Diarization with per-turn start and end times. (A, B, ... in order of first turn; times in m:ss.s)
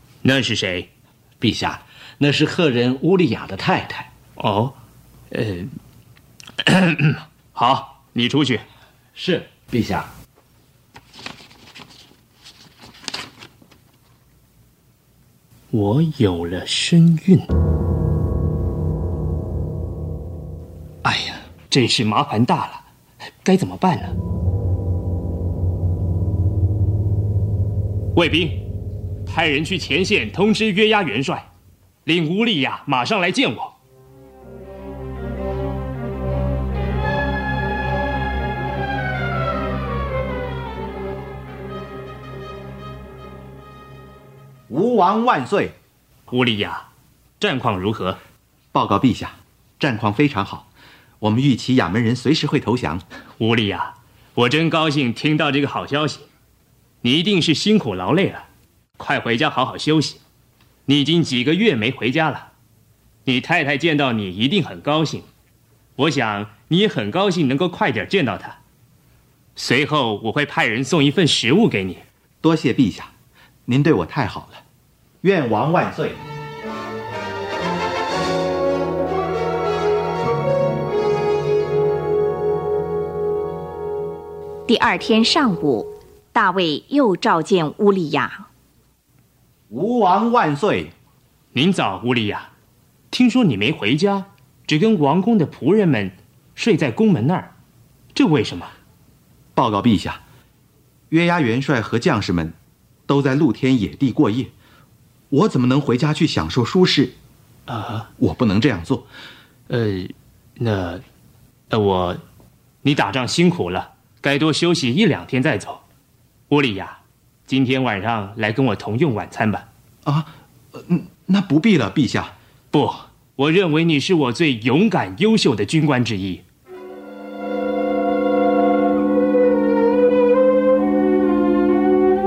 0:00.2-0:00.9 A
0:01.4-0:04.1 B
0:04.4-0:04.7 A
0:05.3-0:05.7 A
0:06.6-0:08.6 A
0:09.2-0:10.1 B
0:15.7-0:17.5 A
0:21.0-0:22.8 A
0:23.4-0:24.1 A
0:28.1-0:28.6 A
0:29.2-0:31.4 A
0:32.0-0:33.7 A
0:44.7-0:45.7 C
0:46.3-0:46.8 A
0:47.4-0:48.2 A
0:48.7-0:50.7 C
0:51.2-0:53.0 C
0:53.4-0:56.2 A
0:57.0-0:58.4 A
0:59.0-1:00.2 A
1:00.8-1:02.5 A
1:03.2-1:05.2 A
1:06.0-1:08.6 A
1:09.6-1:12.0 A
1:12.4-1:13.1 C
1:13.7-1:14.6 C
1:15.2-1:16.2 C
1:24.7-1:28.4 D
1:29.7-1:30.9 C
1:31.5-1:32.5 A
1:33.1-1:37.5 A
1:38.1-1:38.7 A
1:39.6-1:40.2 C
1:41.1-1:42.5 C
1:43.1-1:44.5 C
1:45.3-1:47.1 C
1:47.7-1:48.1 A
1:48.2-1:49.1 C
1:49.7-1:51.0 A
1:51.7-1:52.2 A
1:52.8-1:55.8 A
1:56.5-1:59.6 A
2:00.0-2:02.3 C
2:02.7-2:06.4 A